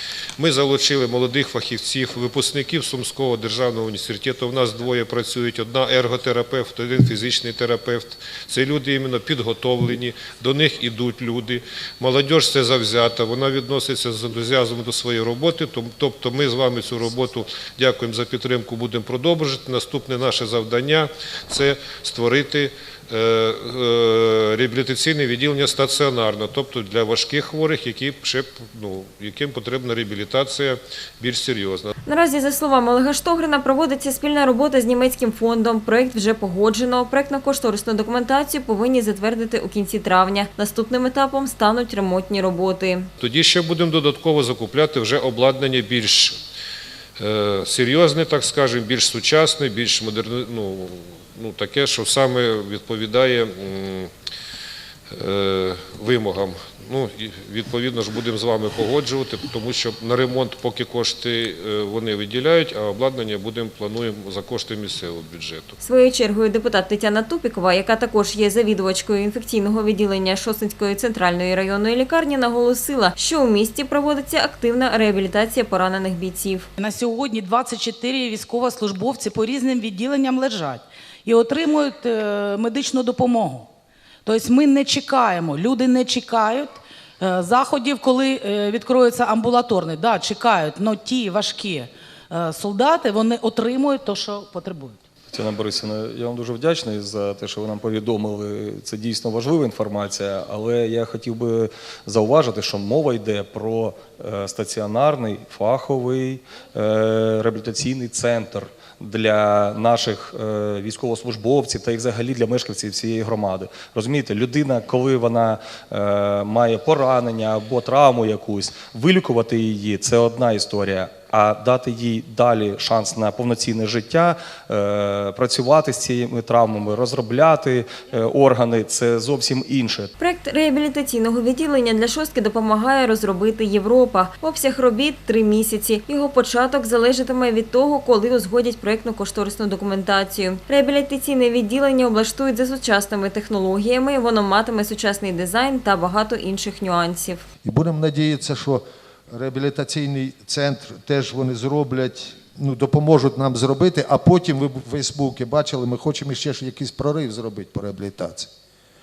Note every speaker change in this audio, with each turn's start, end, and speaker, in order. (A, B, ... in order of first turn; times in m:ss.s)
0:00.4-0:31.9 A
0:32.0-0:43.1 B
0:43.2-0:46.4 A
0:47.2-0:54.1 A
0:55.1-1:05.8 A
1:05.8-1:16.7 B
1:16.8-1:23.7 C
1:24.2-1:35.0 C
1:35.3-2:10.1 D
2:10.2-2:27.4 B
2:27.6-2:38.5 E